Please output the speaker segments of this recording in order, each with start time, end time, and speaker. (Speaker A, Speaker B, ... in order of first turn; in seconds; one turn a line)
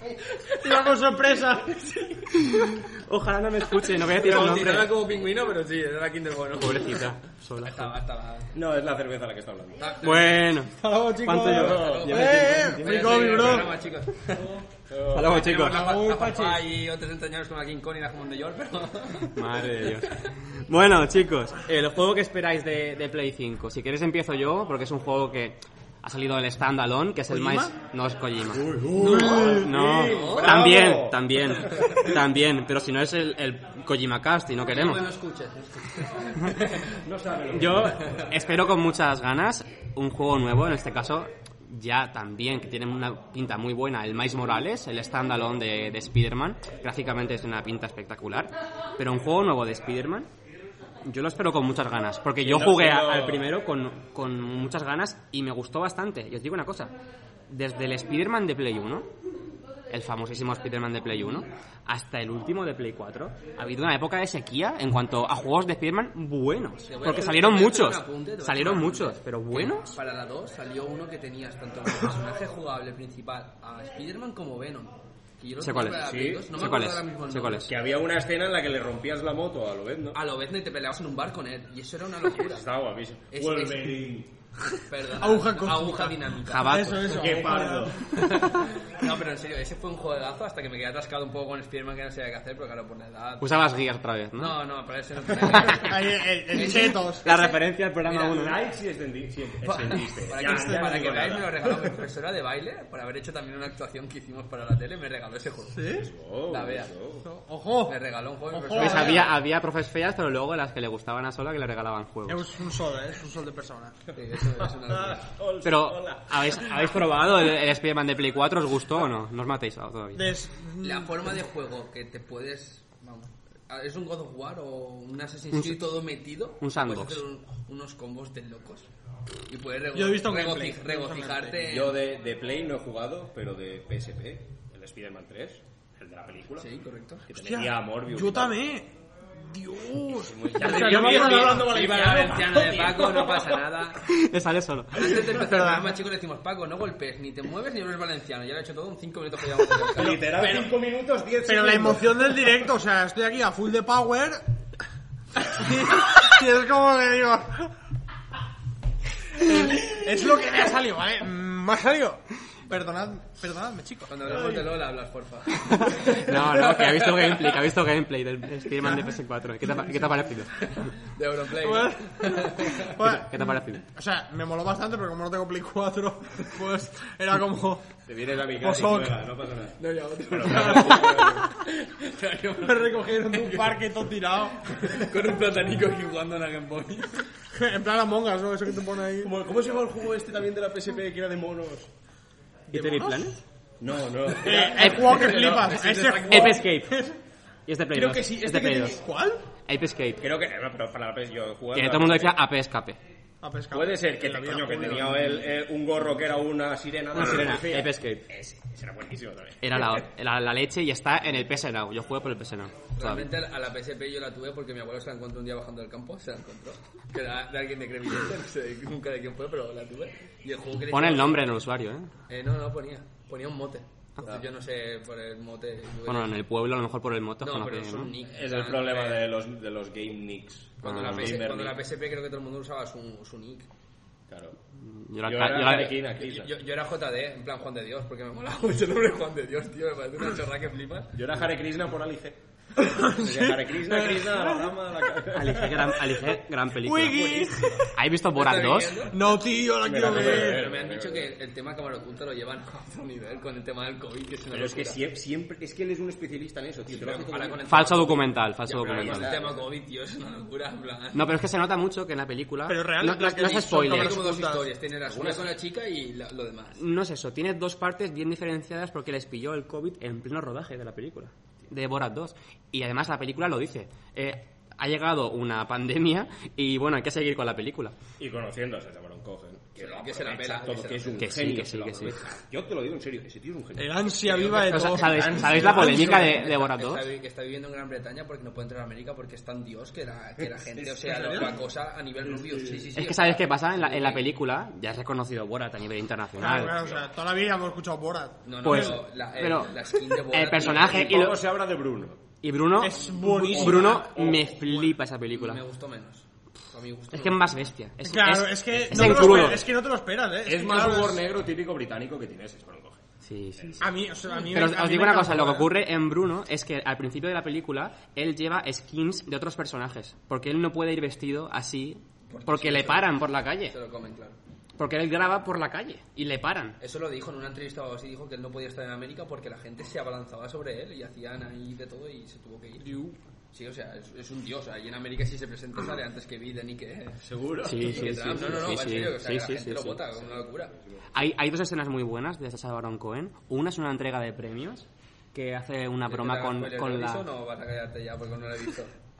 Speaker A: 0.3-0.9
Speaker B: 0.6-1.9
Speaker A: 1.7-2.3
Speaker C: 2.3-4.9
Speaker A: 4.0-7.1
Speaker C: 6.6-7.9
Speaker A: 7.6-8.5
Speaker D: 8.5-9.8
Speaker A: 9.8-10.4
Speaker C: 10.0-13.5
Speaker B: 10.7-13.8
Speaker D: 11.4-12.2
Speaker A: 11.6-14.6
Speaker D: 14.9-15.4
Speaker C: 15.1-15.8
Speaker A: 15.2-20.2
Speaker B: 15.6-16.6
Speaker C: 19.3-35.0
Speaker B: 27.3-27.7
Speaker D: 28.5-32.2
Speaker A: 29.0-30.6
Speaker B: 29.0-29.5
Speaker A: 34.6-37.0
Speaker D: 36.9-38.3
Speaker C: 37.5-50.3
Speaker A: 38.0-38.3
Speaker C: 51.0-56.9
Speaker D: 52.4-53.6
Speaker C: 57.5-59.1
Speaker C: 59.9-70.0
Speaker A: 66.9-77.8
Speaker C: 75.6-77.7
Speaker D: 75.9-76.5
Speaker D: 77.7-80.2
Speaker A: 80.1-82.7
Speaker D: 82.3-84.3
Speaker A: 83.3-84.0
Speaker A: 84.7-87.0
Speaker B: 85.2-88.3
Speaker C: 86.4-87.3
Speaker D: 87.0-88.0
Speaker A: 88.1-93.6
Speaker C: 93.4-94.5
Speaker A: 94.3-97.2
Speaker B: 95.5-97.6
Speaker C: 97.2-98.6
Speaker A: 98.0-98.4
Speaker D: 98.1-102.0
Speaker A: 99.7-106.9
Speaker B: 105.7-106.1
Speaker D: 105.9-107.3
Speaker B: 107.2-108.0
Speaker A: 107.9-109.3
Speaker B: 108.5-109.3
Speaker C: 108.7-112.5
Speaker B: 112.3-114.0
Speaker A: 114.1-115.3
Speaker D: 114.8-116.9
Speaker C: 115.6-120.3
Speaker B: 120.1-121.3
Speaker A: 120.8-128.9
Speaker C: 125.5-125.8
Speaker C: 126.6-127.2
Speaker A: 129.5-132.0
Speaker B: 129.9-131.6
Speaker D: 131.6-136.7
Speaker A: 136.6-137.2
Speaker D: 137.3-138.6
Speaker B: 137.3-141.8
Speaker D: 140.2-143.6
Speaker A: 140.6-144.1
Speaker C: 144.0-145.3
Speaker A: 144.9-150.7
Speaker B: 145.3-145.9
Speaker D: 149.9-152.5
Speaker B: 151.4-154.4
Speaker B: 155.4-157.7
Speaker B: 159.3-164.8
Speaker A: 164.1-167.4
Speaker C: 165.7-170.5
Speaker B: 168.8-169.2
Speaker B: 169.8-170.1
Speaker A: 170.6-173.0
Speaker B: 171.6-177.9
Speaker C: 173.0-173.8
Speaker D: 178.1-181.5
Speaker B: 178.5-179.2
Speaker A: 179.8-183.8
Speaker B: 180.4-181.3
Speaker B: 182.6-184.9
Speaker A: 184.6-187.3
Speaker B: 187.5-189.3
Speaker D: 189.2-191.9
Speaker B: 192.7-193.2
Speaker C: 192.7-193.4
Speaker D: 193.8-196.4
Speaker B: 194.4-197.2
Speaker A: 194.6-196.6
Speaker C: 196.3-197.1
Speaker C: 197.7-199.0
Speaker D: 197.9-199.0
Speaker B: 198.6-199.4
Speaker C: 199.7-200.2
Speaker D: 200.2-202.4
Speaker C: 201.7-203.0
Speaker B: 203.4-205.5
Speaker D: 203.7-210.0
Speaker C: 207.1-208.3
Speaker C: 209.6-213.3
Speaker A: 213.0-221.5
Speaker C: 220.9-222.1
Speaker A: 222.3-226.4
Speaker C: 226.1-228.1
Speaker A: 227.4-229.3
Speaker D: 228.2-231.8
Speaker A: 230.8-233.7
Speaker C: 230.8-231.3
Speaker D: 234.3-234.6
Speaker C: 234.8-236.0
Speaker D: 235.2-236.5
Speaker A: 235.6-241.2
Speaker D: 241.1-242.4
Speaker B: 242.8-244.7
Speaker D: 242.9-246.0
Speaker C: 245.3-249.1
Speaker B: 246.8-247.9
Speaker A: 247.1-247.7
Speaker A: 248.3-249.2
Speaker B: 249.1-250.6
Speaker D: 249.8-251.3
Speaker A: 249.9-255.0
Speaker D: 254.5-257.7
Speaker A: 256.9-261.3
Speaker C: 257.7-259.4
Speaker D: 258.9-259.6
Speaker C: 261.1-264.2
Speaker B: 262.6-264.7
Speaker A: 263.8-266.8
Speaker D: 265.0-265.5
Speaker C: 266.8-277.9
Speaker D: 278.2-284.5
Speaker A: 279.8-281.5
Speaker C: 281.2-282.2
Speaker B: 283.8-286.4
Speaker A: 284.2-294.3
Speaker C: 284.4-287.0
Speaker B: 291.0-291.5
Speaker D: 292.3-292.9
Speaker C: 292.9-296.8
Speaker B: 296.4-299.0
Speaker A: 298.4-301.3
Speaker C: 298.6-301.4
Speaker D: 300.6-302.2
Speaker C: 302.4-305.6
Speaker B: 302.8-304.4
Speaker D: 303.3-304.6
Speaker A: 305.3-307.5
Speaker C: 307.1-309.7
Speaker B: 308.0-311.2
Speaker D: 309.0-309.5
Speaker D: 310.4-313.0
Speaker C: 313.2-313.8
Speaker D: 313.6-313.9
Speaker B: 313.8-315.7
Speaker C: 314.4-323.8
Speaker A: 322.3-324.4
Speaker C: 324.8-326.8
Speaker A: 326.8-340.7
Speaker B: 332.8-333.1
Speaker D: 337.2-338.9
Speaker C: 337.6-340.0
Speaker C: 341.1-347.2
Speaker A: 346.1-348.9